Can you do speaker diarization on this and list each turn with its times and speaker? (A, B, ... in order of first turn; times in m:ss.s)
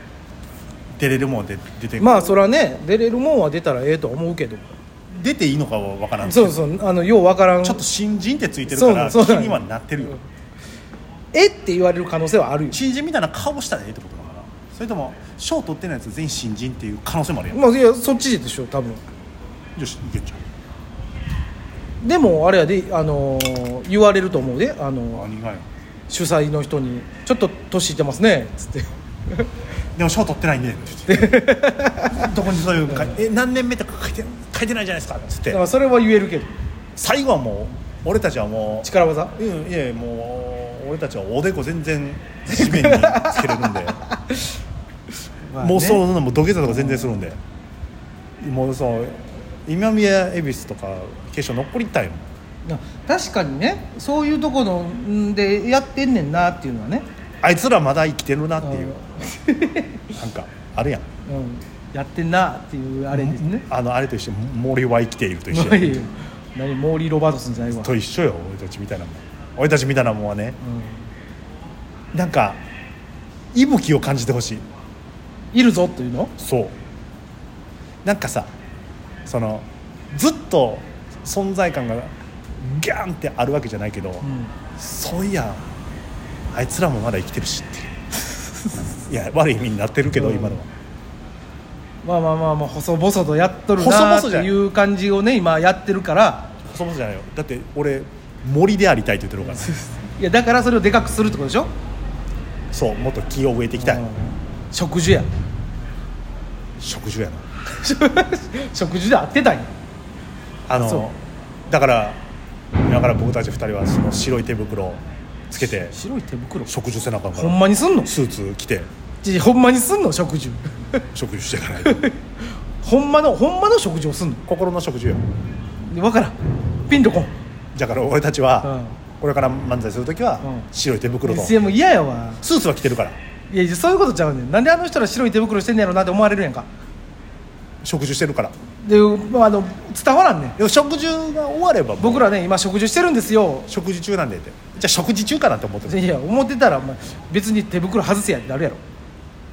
0:00.9-0:02.4 A
0:02.0-0:04.8 B
0:05.1-0:06.6 A
0:06.2-0:07.8 B
0:07.6-0:10.2 A
0:08.7-0:09.6 B
0:11.3-0:12.8 B
0:12.7-0:17.6 A
0:17.5-0:19.0 B
0:19.8-0:20.4 A
0:22.0-0:25.2 B
0:25.1-0:25.7 A
0:26.1-0:29.5 B
0:29.9-0:31.4 A
0:31.1-0:32.3 B
0:32.0-0:35.6 A
0:35.5-0:36.5 B
0:36.9-0:44.0 A
0:38.8-0:39.3 B
0:42.5-0:44.4 B
0:45.5-0:46.0 B
0:45.5-0:47.4 A
0:46.6-0:47.2 B
0:48.4-0:52.3 A
0:52.6-0:57.0 B
0:57.4-0:59.0 A
0:58.6-1:00.0 B
1:00.1-1:01.0 A
1:01.2-1:03.6 B
1:03.1-1:06.0 A
1:05.5-1:07.9 B
1:07.8-1:10.6 A
1:10.6-1:11.1 B
1:12.1-1:12.6 A
1:13.5-1:14.6 A
1:15.5-1:16.3 B
1:16.4-1:16.7 A
1:18.0-1:18.5 A
1:19.2-1:25.7 A
1:24.2-1:24.5 B
1:26.5-1:27.9 A
1:29.0-1:30.7 A
1:30.2-1:30.6 B
1:32.0-1:36.5 B
1:33.8-1:34.5 A
1:36.6-1:39.7 A
1:39.4-1:41.7 B
1:42.7-1:44.0 A
1:43.8-1:45.3 B
1:46.8-1:47.4 A
1:47.8-1:49.7 B
1:50.7-1:52.2 A
1:50.8-1:51.1 B
1:52.8-1:55.9 A
1:55.5-1:56.7 B
1:56.7-1:58.9 A
1:57.3-1:58.1 B
1:59.2-2:01.0 B
2:01.1-2:02.1 A
2:01.8-2:04.4 B
2:04.5-2:05.2 A
2:05.8-2:07.3 B
2:07.7-2:11.6 A
2:08.6-2:09.0 B
2:10.4-2:10.7 B
2:11.2-2:12.4 B
2:12.4-2:13.2 A
2:13.5-2:16.7 B
2:17.8-2:18.5 A
2:18.8-2:20.6 B
2:20.6-2:22.3 A
2:22.0-2:23.7 B
2:23.7-2:26.0 A
2:25.8-2:28.8 B